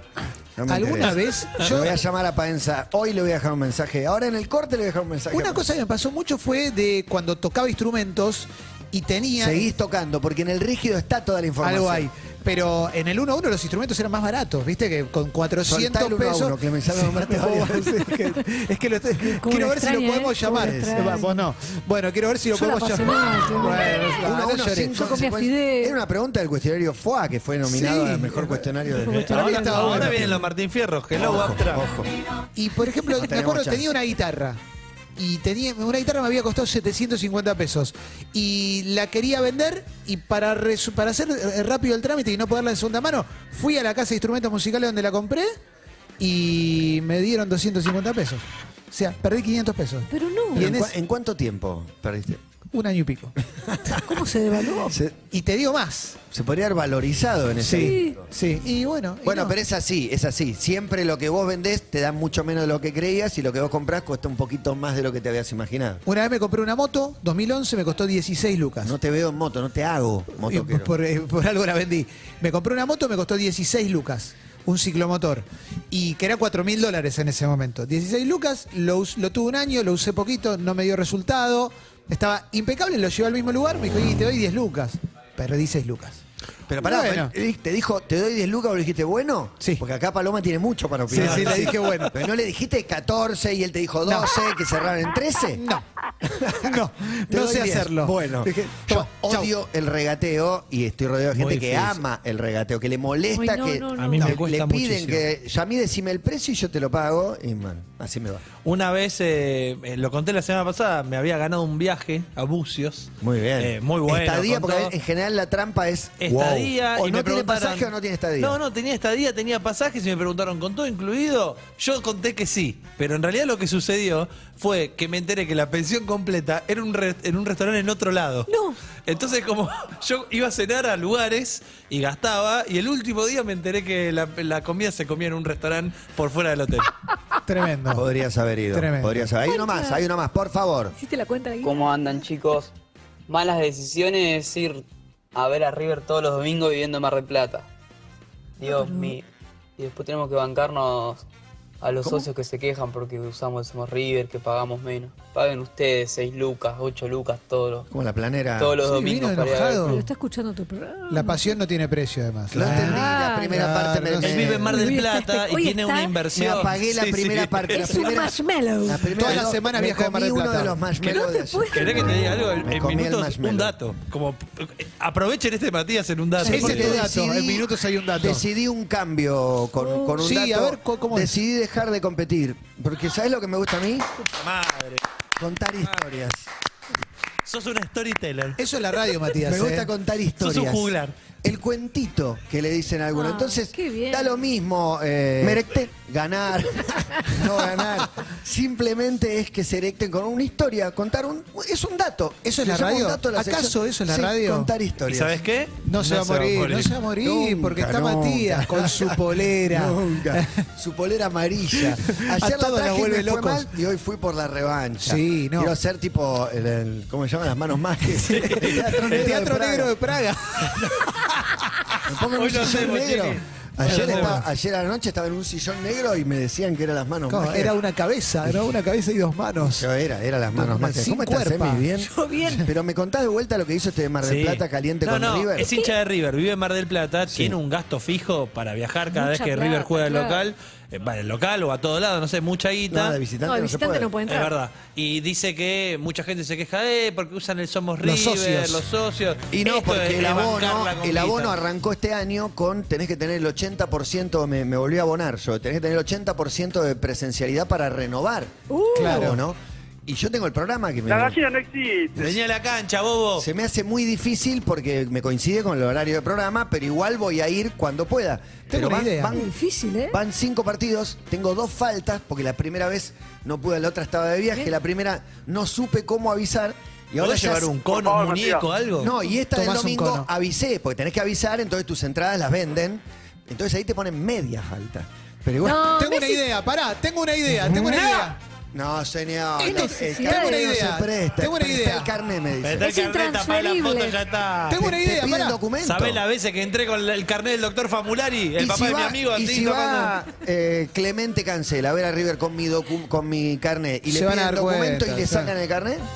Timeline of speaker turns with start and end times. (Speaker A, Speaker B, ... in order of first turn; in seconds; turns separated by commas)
Speaker A: 0.6-5.7, Speaker B: 0.7-2.0, Speaker B: 5.3-9.7, Speaker A: 9.4-12.1, Speaker B: 11.6-25.0, Speaker A: 15.6-18.2, Speaker C: 19.2-21.4, Speaker A: 20.4-21.2, Speaker C: 22.5-24.3, Speaker A: 24.2-30.5, Speaker C: 24.9-26.0, Speaker B: 27.7-30.4, Speaker D: 29.1-31.9, Speaker C: 29.3-29.8, Speaker A: 31.1-32.1, Speaker B: 32.5-34.6, Speaker A: 33.2-33.9, Speaker B: 35.2-45.5, Speaker B: 46.2-50.9, Speaker C: 50.1-50.7, Speaker A: 50.5-52.4, Speaker B: 52.7-53.4, Speaker A: 53.7-54.2, Speaker C: 54.0-55.0, Speaker A: 54.9-55.2, Speaker B: 55.3-56.2, Speaker A: 56.3-58.3, Speaker B: 57.6-59.5, Speaker C: 57.8-58.2, Speaker A: 59.2-66.0, Speaker B: 66.1-68.9, Speaker A: 68.8-70.9, Speaker B: 70.4-86.2, Speaker A: 86.7-95.6, Speaker B: 86.8-87.3, Speaker B: 91.1-92.2, Speaker D: 91.1-92.0, Speaker B: 94.1-94.4, Speaker B: 95.5-95.8, Speaker A: 96.2-108.4, Speaker B: 96.5-99.5, Speaker D: 101.3-102.0, Speaker C: 103.3-104.4, Speaker D: 104.0-105.2, Speaker D: 108.6-114.9, Speaker A: 113.2-118.6, Speaker D: 116.2-128.5, Speaker C: 128.5-128.8, Speaker D: 129.1-136.9, Speaker B: 137.5-138.1, Speaker A: 137.9-140.9, Speaker B: 138.7-139.3, Speaker C: 139.5-140.0, Speaker C: 141.0-141.7, Speaker E: 141.6-142.7, Speaker E: 143.3-147.7, Speaker E: 148.6-149.2, Speaker C: 148.6-149.2, Speaker E: 149.8-151.2, Speaker E: 151.8-157.9, Speaker A: 157.9-158.8, Speaker E: 158.6-160.1, Speaker B: 158.8-160.0, Speaker C: 159.8-161.4, Speaker B: 161.1-164.5, Speaker A: 162.5-164.7, Speaker C: 162.6-163.5, Speaker D: 164.2-168.0, Speaker C: 164.7-166.6, Speaker A: 166.3-173.7, Speaker C: 167.7-169.4, Speaker B: 169.1-170.8, Speaker C: 171.0-172.2, Speaker D: 171.7-177.1, Speaker A: 176.4-184.1, Speaker B: 176.4-178.4, Speaker C: 179.8-180.2, Speaker B: 180.2-181.4, Speaker D: 184.3-185.0, Speaker A: 185.4-186.4, Speaker D: 187.4-188.6, Speaker B: 188.6-189.9, Speaker A: 189.4-205.4, Speaker D: 190.4-191.2, Speaker C: 193.2-194.5, Speaker B: 202.5-204.7, Speaker D: 205.1-206.9, Speaker B: 205.9-210.6, Speaker A: 206.1-219.9, Speaker B: 211.8-213.7, Speaker B: 215.0-215.7, Speaker B: 218.1-222.0, Speaker D: 218.3-219.3, Speaker A: 220.6-221.0, Speaker A: 222.1-227.8, Speaker D: 222.3-224.4, Speaker B: 223.8-224.4, Speaker B: 227.3-229.8, Speaker A: 228.4-228.7, Speaker A: 229.6-235.7, Speaker B: 230.5-231.9, Speaker C: 232.0-232.6, Speaker D: 234.2-243.2, Speaker C: 235.7-235.9, Speaker A: 237.3-237.6, Speaker C: 239.1-240.4, Speaker A: 242.9-244.1, Speaker C: 243.4-244.5, Speaker D: 244.3-251.6, Speaker B: 248.0-248.8, Speaker A: 249.5-261.4, Speaker C: 258.7-259.3, Speaker B: 258.9-259.4, Speaker F: 261.1-262.3, Speaker D: 262.2-263.4, Speaker A: 263.4-269.5, Speaker B: 268.7-269.4, Speaker C: 269.3-270.2, Speaker A: 270.1-277.9, Speaker D: 277.2-279.1, Speaker F: 277.9-278.7, Speaker A: 279.0-285.9, Speaker B: 279.5-280.3, Speaker C: 285.6-286.4, Speaker B: 285.9-288.4, Speaker A: 287.5-288.1, Speaker A: 288.7-292.9, Speaker B: 289.6-292.1, Speaker C: 289.6-290.7, Speaker D: 292.6-294.9, Speaker C: 292.8-294.2, Speaker B: 294.7-295.6, Speaker A: 294.7-296.2, Speaker D: 295.8-300.2, Speaker A: 298.6-306.1, Speaker B: 304.1-305.5